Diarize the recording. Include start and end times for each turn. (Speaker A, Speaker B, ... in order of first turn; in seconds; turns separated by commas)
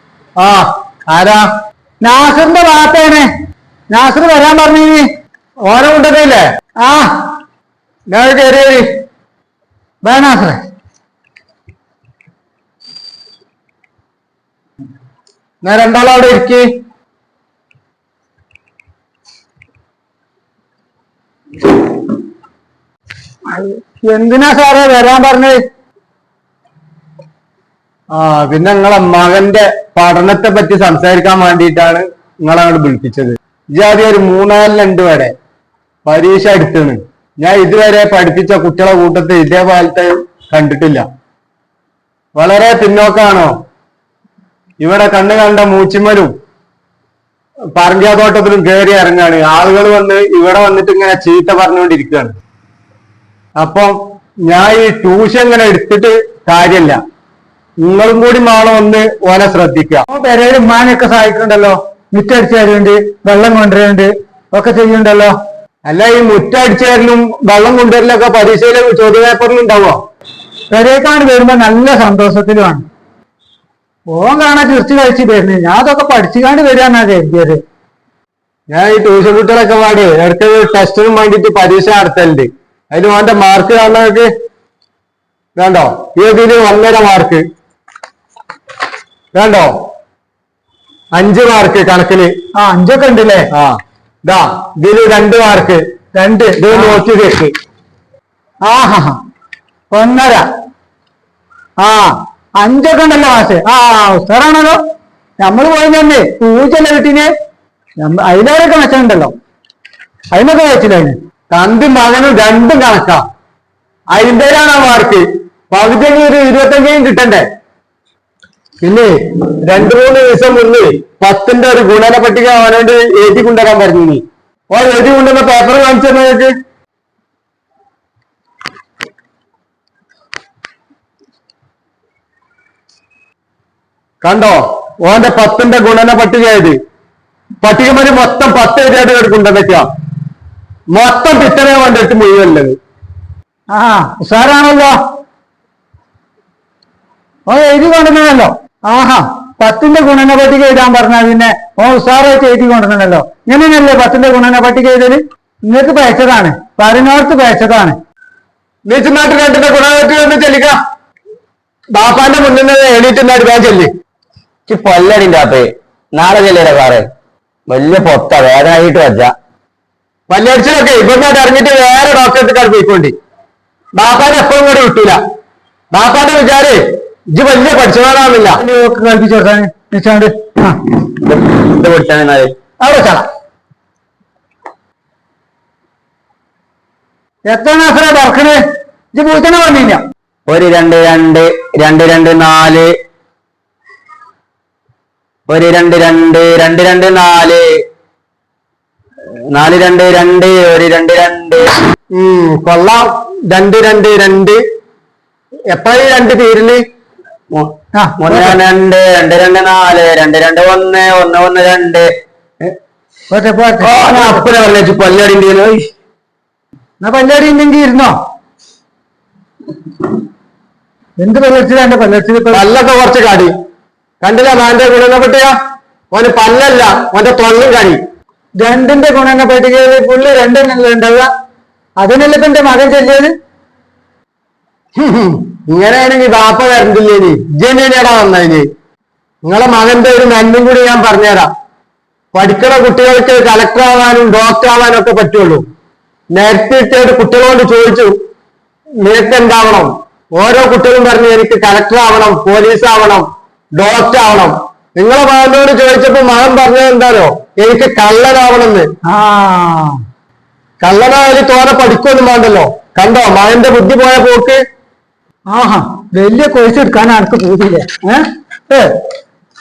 Speaker A: 0.4-1.5, Speaker B: 2.0-3.3, Speaker B: 3.9-5.1, Speaker A: 5.6-6.5, Speaker B: 6.8-7.1, Speaker A: 8.1-8.9, Speaker B: 10.0-10.6, Speaker A: 15.6-16.7, Speaker B: 23.5-25.6, Speaker A: 28.1-35.3, Speaker A: 36.1-41.0, Speaker A: 42.4-43.5, Speaker A: 44.8-46.3, Speaker A: 47.8-52.4, Speaker A: 53.6-54.0, Speaker A: 54.5-57.0, Speaker A: 57.8-60.0, Speaker B: 60.1-65.3, Speaker A: 65.9-70.0, Speaker B: 70.7-72.8, Speaker B: 74.1-77.6, Speaker A: 78.7-84.3, Speaker A: 85.6-87.5, Speaker A: 89.3-89.8, Speaker A: 91.1-92.3, Speaker B: 92.6-93.5, Speaker A: 93.5-95.8, Speaker B: 96.2-97.0, Speaker A: 96.6-97.5, Speaker B: 98.6-99.2, Speaker B: 99.9-100.5, Speaker B: 101.8-104.8, Speaker B: 105.4-107.3, Speaker B: 108.0-109.3, Speaker B: 110.3-111.2, Speaker A: 111.5-113.2, Speaker A: 114.1-117.5, Speaker A: 118.8-126.5, Speaker A: 134.2-136.8, Speaker A: 137.6-139.9, Speaker A: 140.9-142.8, Speaker B: 143.7-145.0, Speaker B: 147.5-158.0, Speaker A: 158.9-160.8, Speaker A: 161.9-163.9, Speaker C: 164.7-167.1, Speaker C: 167.7-169.3, Speaker A: 170.3-173.1, Speaker A: 173.9-175.2, Speaker A: 175.9-176.8, Speaker A: 177.3-178.6, Speaker B: 178.6-180.8, Speaker C: 181.3-182.5, Speaker B: 182.8-183.2, Speaker B: 187.5-188.6, Speaker B: 189.1-190.0, Speaker C: 190.5-192.9, Speaker C: 195.5-197.7, Speaker C: 199.5-201.8, Speaker A: 202.1-204.6, Speaker A: 205.7-206.8, Speaker C: 207.5-212.1, Speaker B: 207.9-208.6, Speaker B: 213.3-214.4, Speaker C: 213.8-215.9, Speaker B: 217.0-218.2, Speaker B: 221.2-222.7, Speaker A: 222.5-223.5, Speaker A: 224.2-225.6, Speaker A: 226.1-228.0, Speaker B: 228.6-231.3, Speaker B: 232.0-233.3, Speaker A: 235.0-238.7, Speaker A: 239.4-241.5, Speaker A: 242.3-245.7, Speaker A: 246.3-248.1, Speaker A: 249.0-258.9, Speaker B: 259.1-260.0, Speaker A: 260.8-264.6, Speaker B: 265.5-268.9